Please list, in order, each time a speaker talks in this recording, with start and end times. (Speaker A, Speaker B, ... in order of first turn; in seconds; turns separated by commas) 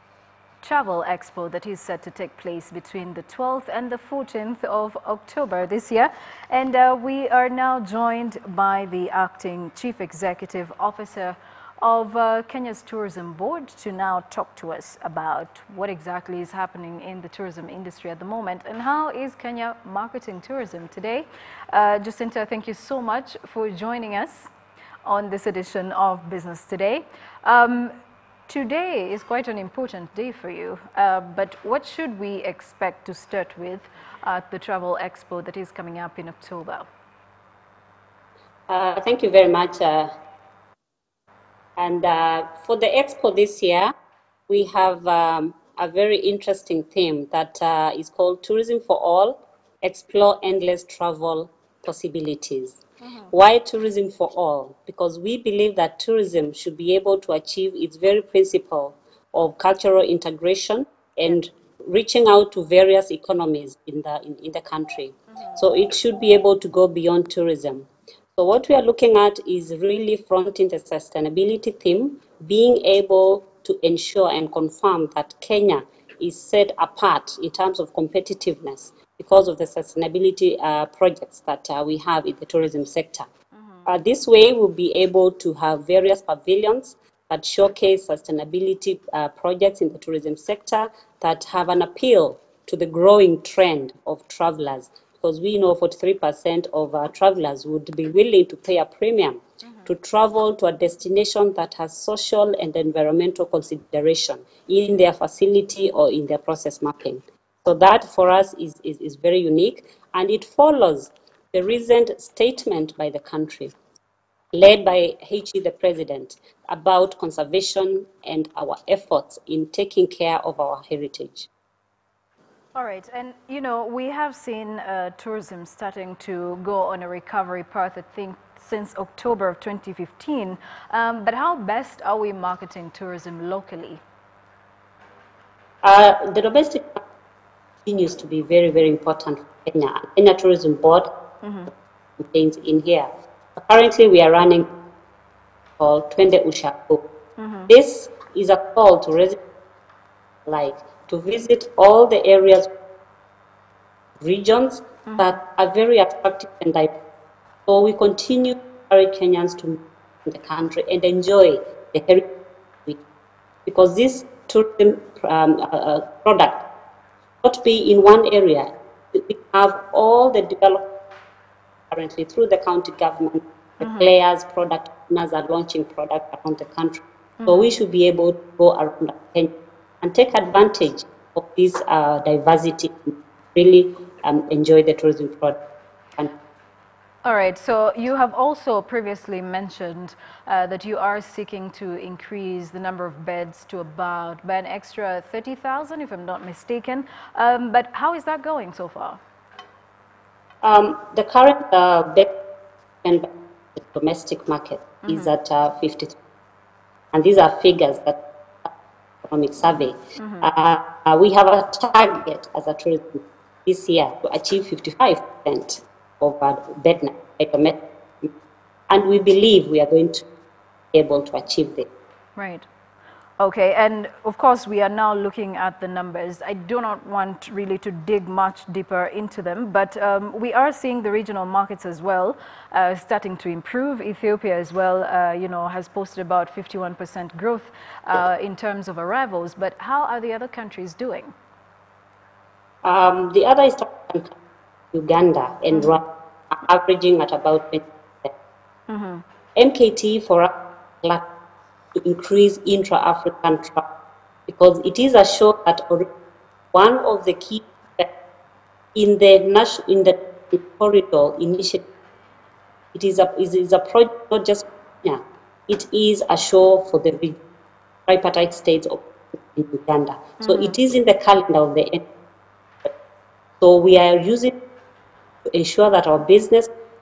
Speaker A: 0.6-24.5, Speaker A: 25.1-27.9, Speaker A: 28.5-36.9, Speaker B: 38.7-40.1, Speaker B: 41.8-43.9, Speaker B: 44.5-52.8, Speaker B: 53.3-83.3, Speaker B: 83.9-113.7, Speaker B: 114.5-121.5, Speaker A: 122.7-134.0, Speaker B: 135.8-137.0, Speaker B: 137.8-141.1, Speaker A: 141.4-141.7, Speaker B: 142.2-144.7, Speaker B: 145.8-147.1, Speaker A: 147.4-147.7, Speaker B: 147.7-149.4, Speaker B: 150.4-152.7, Speaker B: 154.2-156.9, Speaker B: 157.7-162.3, Speaker B: 163.7-166.6, Speaker B: 167.4-170.9, Speaker B: 171.9-185.6, Speaker A: 173.8-174.1, Speaker A: 177.4-177.7, Speaker A: 187.2-199.2, Speaker B: 200.6-202.3, Speaker B: 203.0-206.2, Speaker A: 205.1-205.3, Speaker B: 207.1-208.7, Speaker B: 209.2-218.3, Speaker A: 210.2-210.5, Speaker B: 218.9-220.2, Speaker B: 220.9-221.9, Speaker A: 222.3-222.7, Speaker A: 223.4-241.3, Speaker B: 242.8-244.4, Speaker B: 244.9-248.3, Speaker A: 248.9-249.2, Speaker B: 249.6-251.2, Speaker B: 251.9-253.9, Speaker B: 254.5-256.1, Speaker B: 256.7-258.1, Speaker B: 258.9-261.8, Speaker B: 262.9-267.4, Speaker B: 268.1-272.0, Speaker A: 270.4-270.8, Speaker B: 273.6-274.6, Speaker B: 275.5-276.7